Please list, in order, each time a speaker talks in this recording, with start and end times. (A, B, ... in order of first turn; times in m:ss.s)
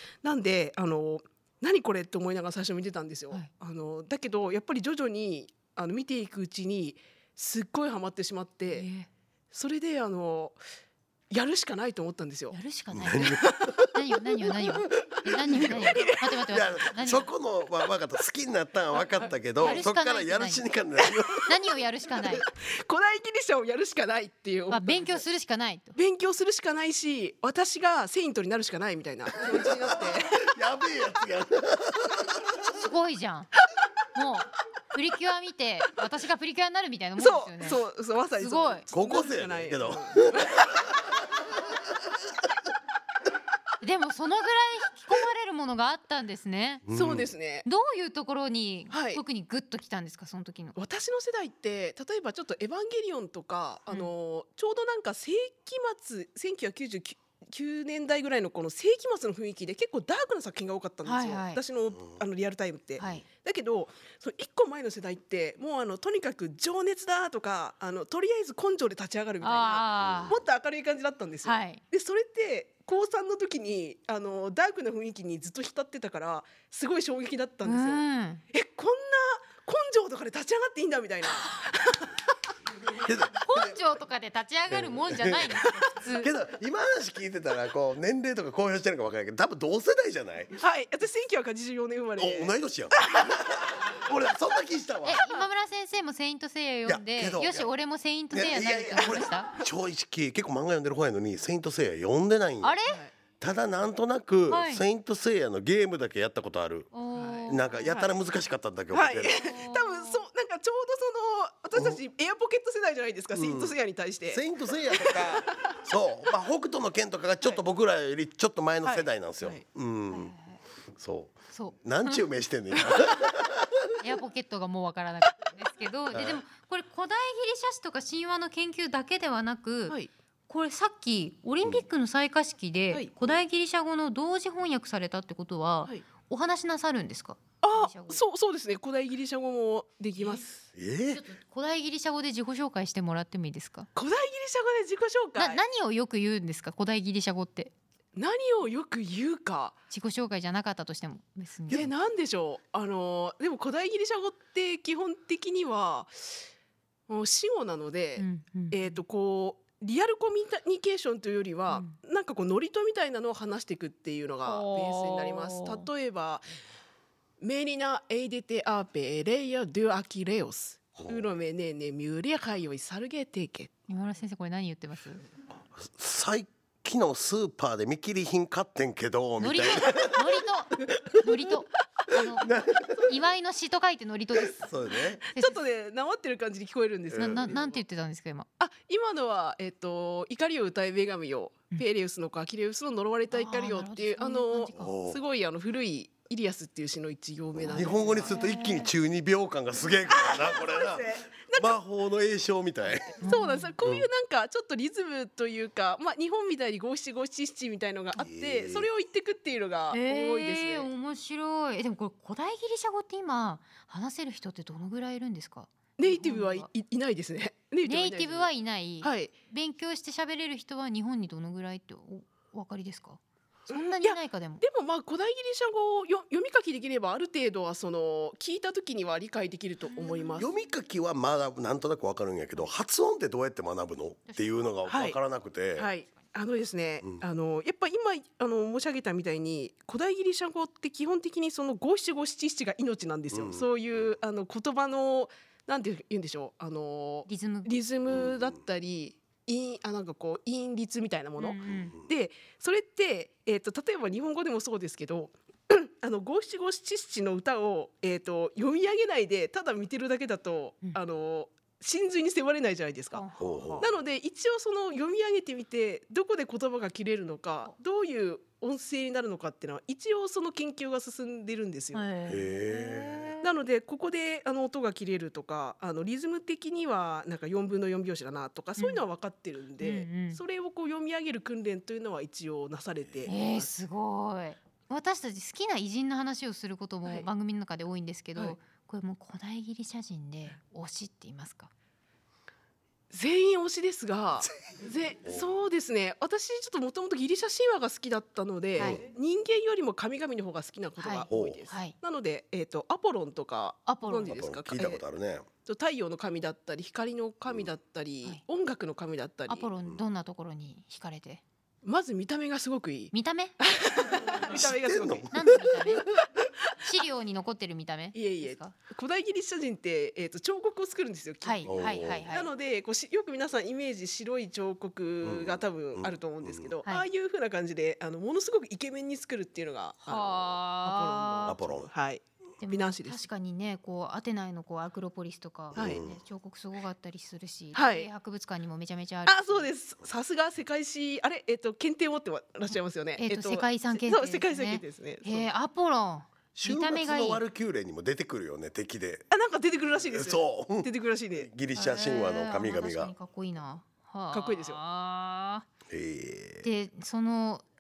0:00.2-0:08.9 A
0:08.7-0:09.1 B
0:09.5-0:10.6 A
0:11.3-0:12.6 A
0:12.5-0:17.3 B
0:12.9-0:13.9 C
0:13.2-0:13.8 A
0:14.6-0:21.5 C
0:15.4-0:16.4 A
0:18.9-0:19.8 A
0:19.6-0:20.6 B
0:21.5-0:22.4 B
0:22.4-0:25.2 A
0:24.7-0:26.0 B
0:26.0-0:30.6 A
0:29.4-0:32.8 C
0:32.8-0:33.5 B
0:34.2-0:37.8 B
0:37.2-0:40.8 A
0:38.4-0:38.8 B
0:38.9-0:42.3 C
0:43.8-0:46.8 B
0:46.9-0:47.3 C
0:46.9-0:47.7 A
0:47.6-0:50.8 B
0:48.9-0:49.2 A
0:50.8-1:22.2 A
1:01.0-1:01.6 B
1:03.0-1:03.3 B
1:09.4-1:10.4 B
1:10.0-1:10.4 C
1:11.4-1:11.8 B
1:17.6-1:18.4 B
1:22.9-1:23.8 C
1:23.4-1:26.3 B
1:24.7-1:30.6 C
1:30.6-1:33.4 A
1:32.2-1:35.2 C
1:35.0-1:39.5 B
1:36.9-1:37.7 C
1:38.3-1:42.8 C
1:42.6-1:43.0 B
1:43.4-1:46.9 C
1:44.5-1:44.8 B
1:46.9-1:47.9 B
1:47.2-1:48.0 A
1:47.5-1:49.5 C
1:48.9-1:55.8 A
1:49.3-1:50.2 B
1:53.4-1:53.8 C
1:54.3-2:00.3 C
1:58.8-1:59.6 A
2:00.1-2:00.6 B
2:01.0-2:03.9 C
2:01.5-2:02.2 B
2:04.0-2:10.0 B
2:06.1-2:06.4 C
2:10.5-2:18.2 B
2:17.6-2:20.6 A
2:20.2-2:20.4 B
2:20.8-2:21.2 C
2:21.1-2:23.9 B
2:24.0-2:25.6 A
2:25.4-2:27.7 B
2:28.2-2:29.8 A
2:29.9-2:31.9 B
2:31.7-2:36.5 A
2:37.1-2:46.5 A
2:38.2-2:39.0 B
2:41.7-2:42.0 B
2:44.4-2:45.9 B
2:47.4-2:53.7 A
2:51.0-2:51.3 C
2:53.9-2:55.2 B
2:55.8-3:01.1 C
2:59.4-3:02.5 B
3:02.4-3:03.1 C
3:03.1-3:04.7 B
3:04.5-3:05.2 C
3:05.3-3:07.8 A
3:07.1-3:07.5 C
3:07.2-3:08.5 B
3:08.6-3:18.4 A
3:13.3-3:14.9 B
3:14.8-3:15.2 C
3:17.6-3:23.2 C
3:17.7-3:18.9 B
3:20.1-3:21.8 A
3:23.2-3:30.9 A
3:23.2-3:23.7 B
3:23.8-3:24.1 C
3:28.2-3:28.9 C
3:29.9-3:36.7 B
3:36.0-3:38.5 A
3:37.8-3:44.6 B
3:39.0-3:39.3 A
3:43.7-3:50.5 A
3:49.9-3:50.5 B
3:50.4-3:55.9 C
3:54.3-3:54.7 B
3:54.9-3:55.2 A
3:55.8-4:23.2 A
4:03.3-4:04.1 C
4:07.3-4:07.8 B
4:08.1-4:08.5 C
4:11.4-4:12.0 B
4:11.7-4:12.0 C
4:23.1-4:23.9 B
4:23.4-4:23.9 C
4:23.8-4:32.1 A
4:31.9-4:33.5 B
4:32.3-4:33.3 C
4:33.4-4:43.7 A
4:38.8-4:39.0 B
4:39.8-4:40.4 B
4:43.3-4:51.7 B
4:53.1-5:05.0 A
4:58.8-4:59.0 B
4:58.8-4:59.0 C
5:01.0-5:02.0 B
5:01.3-5:01.7 C
5:03.9-5:04.4 B
5:04.3-5:05.5 C
5:05.7-5:09.7 A
5:09.5-5:11.4 B
5:11.8-5:15.3 A
5:13.1-5:13.6 B
5:14.4-5:15.6 C
5:15.3-5:16.1 B
5:16.8-5:18.7 B
5:18.2-5:33.2 A
5:21.4-5:22.5 B
5:21.7-5:22.3 C
5:25.2-5:26.7 C
5:30.0-5:31.6 B
5:31.5-5:31.9 C
5:32.6-5:39.7 B
5:35.7-5:36.2 C
5:35.8-5:36.0 A
5:37.7-5:38.1 A
5:39.3-5:45.5 A
5:43.2-5:47.4 B
5:46.6-5:49.3 C
5:49.3-5:51.5 A
5:50.1-5:53.1 C
5:51.7-5:55.7 B
5:54.3-5:54.8 A
5:55.9-5:56.7 C
5:56.6-5:57.6 B